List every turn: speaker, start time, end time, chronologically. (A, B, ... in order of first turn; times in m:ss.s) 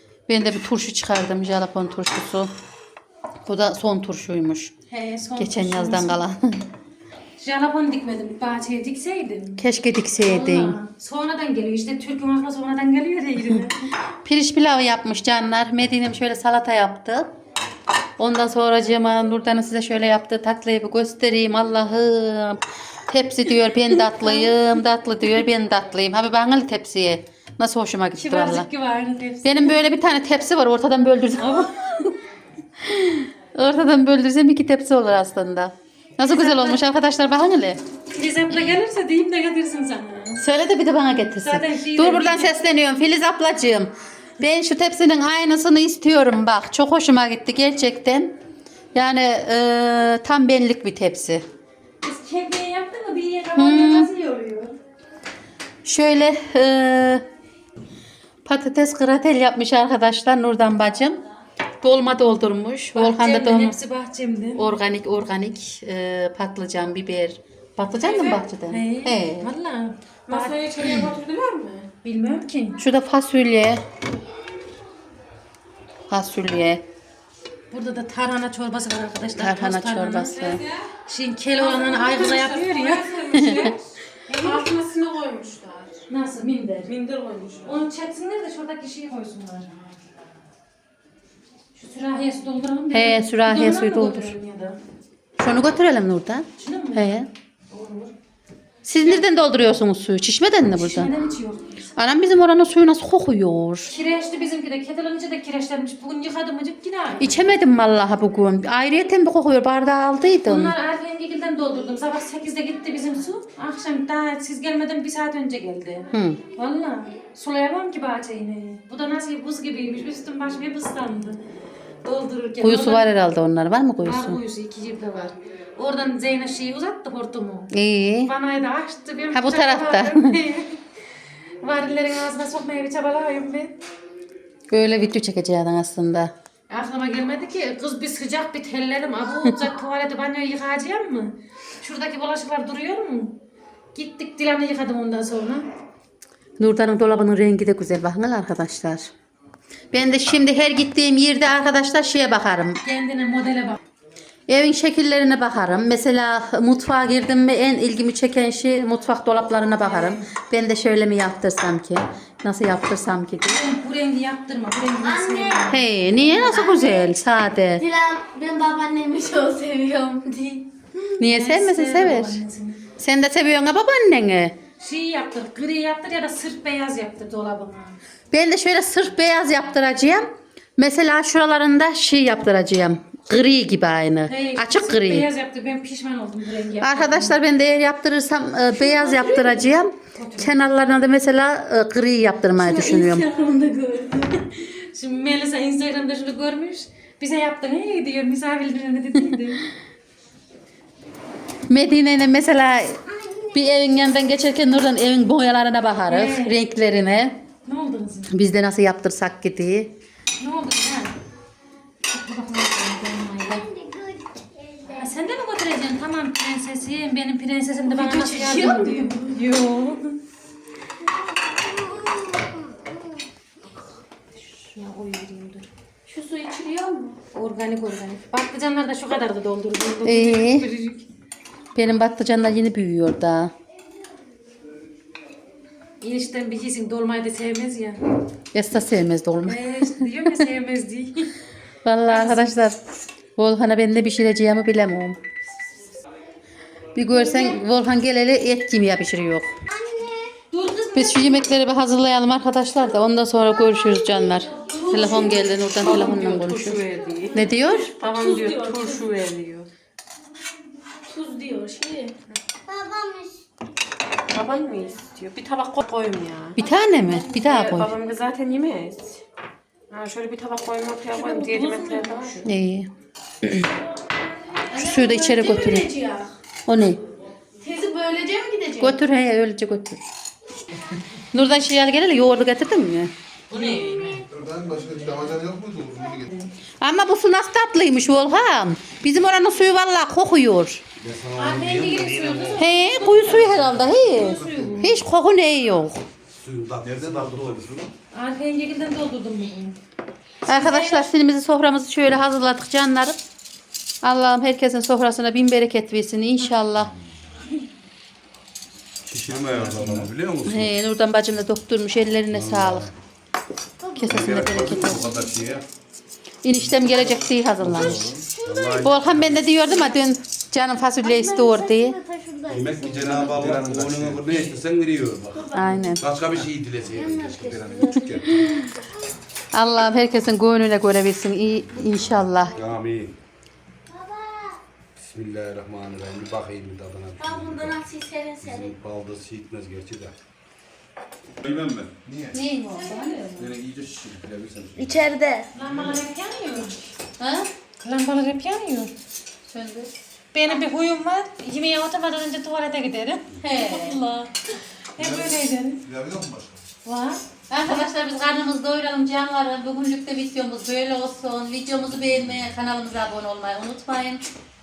0:00.3-0:02.5 A
0:03.5-0:04.7 A
0:04.9-0:06.2 B
0:05.4-0:06.6 A
0:07.4-0:09.6 B
0:09.6-0:10.8 A
0:10.2-0:13.8 B
0:14.2-0:17.3 A
0:18.2-0:28.7 A
0:28.2-0:29.8 B
0:29.4-0:31.7 A
0:31.4-0:32.1 B
0:32.8-0:37.8 A
0:36.2-0:36.8 B
0:38.1-0:40.4 B
0:40.4-0:48.4 A
0:41.4-0:42.6 B
0:49.0-0:51.4 A
0:52.0-0:54.8 B
0:53.6-0:54.1 A
0:55.8-0:57.2 A
0:58.5-1:01.2 A
1:01.8-1:03.8 A
1:03.0-1:04.6 B
1:04.6-1:09.5 A
1:08.1-1:11.1 B
1:10.3-1:11.9 C
1:12.0-1:12.8 B
1:12.8-1:13.8 A
1:16.1-1:16.8 A
1:17.7-1:23.7 B
1:19.4-1:20.6 A
1:20.4-1:20.8 C
1:21.6-1:26.1 C
1:23.4-1:23.7 A
1:24.3-1:24.7 B
1:26.1-1:26.9 B
1:26.9-1:27.8 C
1:27.7-1:29.7 B
1:31.7-1:34.4 B
1:32.9-1:34.3 A
1:33.6-1:34.8 C
1:35.4-1:37.3 A
1:36.6-1:37.2 B
1:37.7-1:38.1 B
1:38.9-1:41.1 A
1:40.7-1:41.8 B
1:42.0-1:43.9 A
1:43.9-1:47.4 B
1:47.2-1:50.8 A
1:50.5-2:01.4 B
1:56.1-1:56.4 A
2:02.0-2:03.1 B
2:02.6-2:04.4 A
2:04.0-2:07.7 B
2:07.7-2:08.3 A
2:08.3-2:10.8 B
2:09.3-2:10.4 A
2:11.6-2:13.8 B
2:14.7-2:16.3 A
2:16.7-2:23.4 B
2:24.0-2:25.7 B
2:26.6-2:29.1 A
2:29.9-2:32.8 A
2:32.8-2:33.8 B
2:34.5-2:43.6 A
2:39.8-2:40.3 B
2:43.4-2:47.0 B
2:45.0-2:45.8 D
2:45.7-2:47.8 A
2:47.8-2:51.0 D
2:51.2-2:52.4 A
2:51.2-2:52.8 B
2:53.0-2:54.6 A
2:54.8-2:58.0 B
2:58.3-3:05.3 A
3:04.3-3:07.4 B
3:06.8-3:13.3 A
3:10.1-3:10.5 B
3:12.6-3:14.3 D
3:14.4-3:19.7 B
3:21.7-3:27.4 A
3:26.1-3:26.6 B
3:27.7-3:28.3 B
3:28.3-3:30.0 A
3:30.4-3:31.2 B
3:32.1-3:33.6 B
3:33.4-3:35.1 D
3:34.9-3:40.2 B
3:37.9-3:39.4 C
3:41.1-3:42.8 D
3:44.5-3:45.7 B
3:46.1-3:47.1 D
3:46.3-3:47.1 C
3:47.3-3:51.1 B
3:50.0-3:50.7 A
3:51.8-3:53.5 A
3:56.0-3:58.0 B
3:58.5-4:00.4 A
3:59.5-4:01.3 B
4:01.8-4:02.8 A
4:02.1-4:02.6 B
4:03.4-4:05.2 A
4:07.0-4:09.5 A
4:09.7-4:10.3 D
4:10.5-4:11.6 B
4:10.9-4:16.8 A
4:14.4-4:15.0 D
4:14.9-4:16.2 B
4:15.0-4:19.7 C
4:17.3-4:17.9 A
4:18.2-4:18.9 B
4:21.1-4:22.2 D
4:22.7-4:23.4 D
4:24.3-4:26.6 C
4:26.6-4:27.9 A
4:27.2-4:29.2 C
4:29.9-4:32.5 C
4:31.1-4:32.4 B
4:32.4-4:32.9 A
4:33.4-4:33.7 A
4:34.7-4:36.3 D
4:34.7-4:35.9 A
4:36.7-4:37.0 A
4:37.6-4:38.9 D
4:38.8-4:40.0 A
4:41.3-4:43.1 A
4:43.5-4:44.0 B
4:43.5-4:44.2 C
4:43.6-4:44.2 D
4:44.3-4:46.3 E
4:46.8-4:50.8 A
4:51.0-4:52.5 E
4:51.0-4:52.3 F
4:51.4-4:55.0 B
4:52.6-4:56.0 A
4:54.2-4:54.9 E
4:54.5-4:54.8 C
4:56.4-4:57.9 F
4:56.5-4:57.7 E
4:58.1-4:59.8 B
5:00.5-5:03.2 A
5:00.5-5:01.0 B
5:04.0-5:06.9 A
5:09.1-5:10.1 E
5:09.1-5:10.7 F
5:10.5-5:12.9 A
5:12.4-5:12.9 F
5:13.8-5:14.1 D
5:14.0-5:15.1 A
5:14.1-5:15.6 F
5:14.4-5:15.0 E
5:16.4-5:18.0 A
5:17.6-5:19.4 F
5:17.8-5:18.2 E
5:18.3-5:19.0 D
5:18.8-5:22.0 A
5:19.5-5:19.9 D
5:21.0-5:23.5 D
5:22.5-5:28.5 F
5:22.9-5:24.6 E
5:25.3-5:26.1 D
5:25.5-5:26.0 A
5:26.8-5:28.9 D
5:27.5-5:28.2 E
5:29.5-5:32.6 A
5:32.5-5:33.2 F
5:33.9-5:34.6 D
5:35.0-5:37.8 F
5:37.2-5:38.8 D
5:38.4-5:40.2 F
5:41.4-5:42.0 F
5:42.0-5:42.4 E
5:42.3-5:43.3 A
5:42.7-5:43.5 B
5:43.4-5:45.1 F
5:44.8-5:45.5 D
5:45.5-5:46.9 B
5:47.2-5:47.5 A
5:47.8-5:48.9 B
5:49.5-5:49.9 A
5:50.3-5:55.8 B
5:53.4-5:54.0 A
5:55.0-5:56.6 E
5:56.8-5:57.2 B
5:57.5-6:04.3 A